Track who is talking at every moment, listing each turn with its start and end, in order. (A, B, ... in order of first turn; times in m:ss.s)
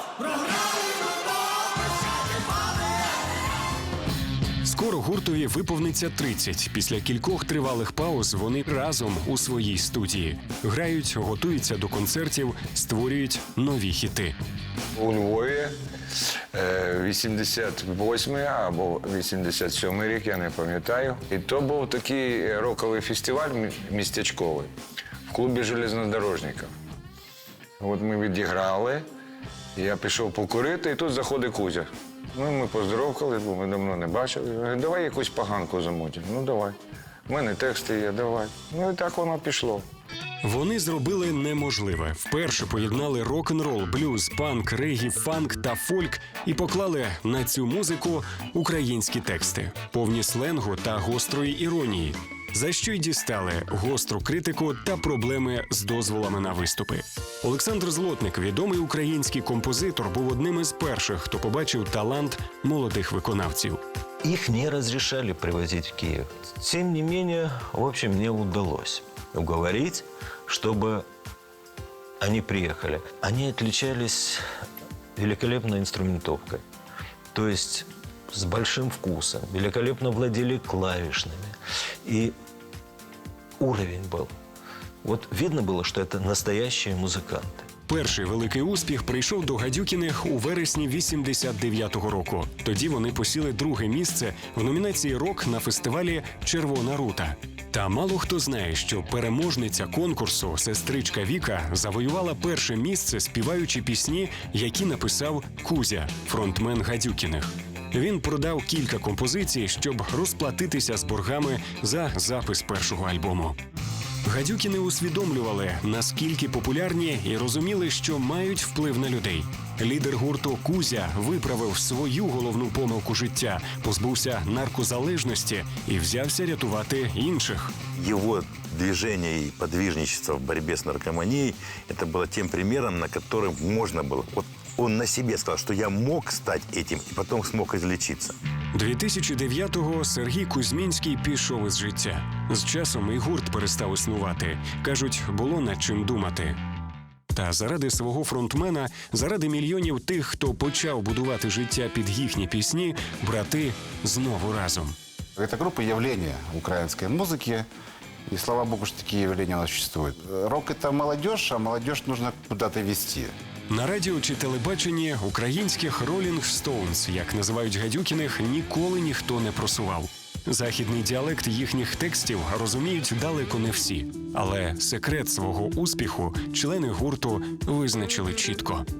0:04.6-0:14.3 A
0:14.9-0:15.7 B
0:16.5-0:24.7 B
0:25.3-0:26.7 B
0:27.8-0:29.0 B
0:29.7-0:36.8 B
0:37.3-0:39.8 B
0:40.4-1:03.8 A
1:04.2-1:11.0 C
1:12.2-1:14.4 C
1:15.2-1:16.6 C
1:17.3-1:22.3 C
1:23.6-1:24.3 C
1:25.0-1:27.6 C
1:27.9-1:53.6 A
1:54.2-2:07.7 A
2:07.9-2:18.4 D
2:18.7-2:26.6 A
2:27.3-2:34.9 A
2:35.4-2:37.6 E
2:38.3-2:43.3 E
2:43.7-2:58.8 A